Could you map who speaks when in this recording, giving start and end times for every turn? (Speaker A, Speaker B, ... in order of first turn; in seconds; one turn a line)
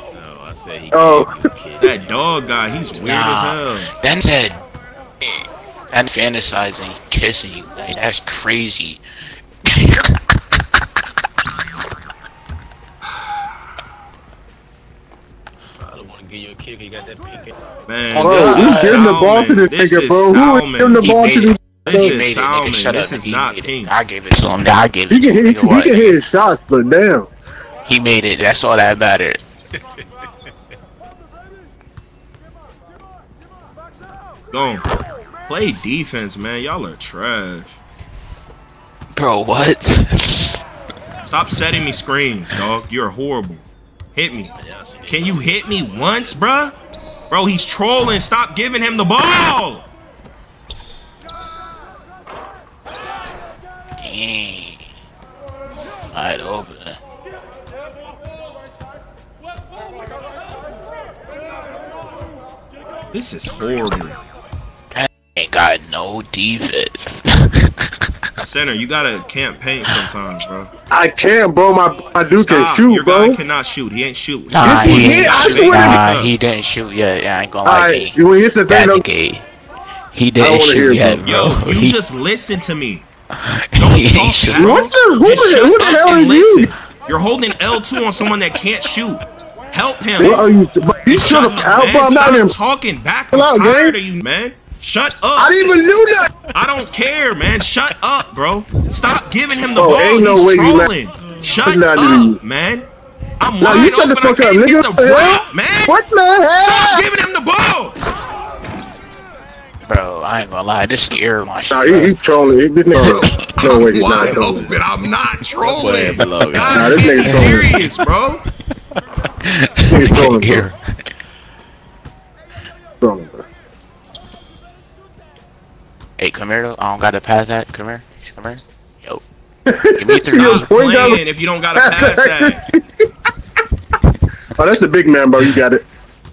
Speaker A: 0.1-2.2
Speaker B: 0.9-1.4
Speaker C: 1.8-3.9
Speaker D: 3.0-4.6
Speaker D: 5.9-9.0
Speaker D: 9.7-10.6
Speaker A: 15.8-17.5
Speaker C: 17.9-21.1
Speaker B: 18.1-22.2
Speaker D: 18.3-19.0
Speaker D: 21.0-26.2
Speaker C: 21.9-23.9
Speaker B: 25.1-27.3
Speaker D: 27.9-29.4
Speaker C: 34.5-34.8
Speaker C: 35.5-37.8
Speaker D: 39.1-40.6
Speaker C: 41.2-44.5
Speaker A: 44.5-46.5
Speaker C: 45.1-46.7
Speaker C: 47.3-49.9
Speaker D: 54.0-54.9
Speaker D: 56.1-57.0
Speaker C: 63.1-64.2
Speaker D: 64.9-68.1
Speaker C: 68.4-70.7
Speaker B: 70.9-73.4
Speaker C: 72.3-76.3
Speaker D: 74.5-79.5
Speaker B: 74.6-76.0
Speaker B: 77.7-79.0
Speaker D: 80.1-82.0
Speaker B: 80.4-81.2
Speaker C: 81.2-83.1
Speaker D: 83.3-84.8
Speaker C: 83.8-90.5
Speaker B: 84.5-86.7
Speaker B: 90.2-92.5
Speaker C: 91.1-95.7
Speaker B: 93.3-94.0
Speaker B: 95.4-96.3
Speaker C: 96.5-102.9
Speaker B: 99.8-100.9
Speaker A: 101.2-101.6
Speaker B: 101.6-102.4
Speaker C: 103.4-106.0
Speaker B: 103.6-107.1
Speaker C: 106.6-108.0
Speaker D: 109.9-112.1
Speaker B: 111.7-114.7
Speaker C: 113.0-118.4
Speaker D: 113.0-113.4
Speaker A: 115.6-117.2
Speaker D: 116.7-118.0
Speaker B: 116.7-117.7
Speaker D: 119.0-120.8
Speaker B: 119.9-120.7
Speaker B: 123.0-123.5
Speaker D: 126.2-129.2
Speaker B: 129.7-131.2
Speaker D: 129.9-130.7
Speaker C: 130.4-132.6
Speaker B: 131.8-133.1
Speaker B: 134.6-135.8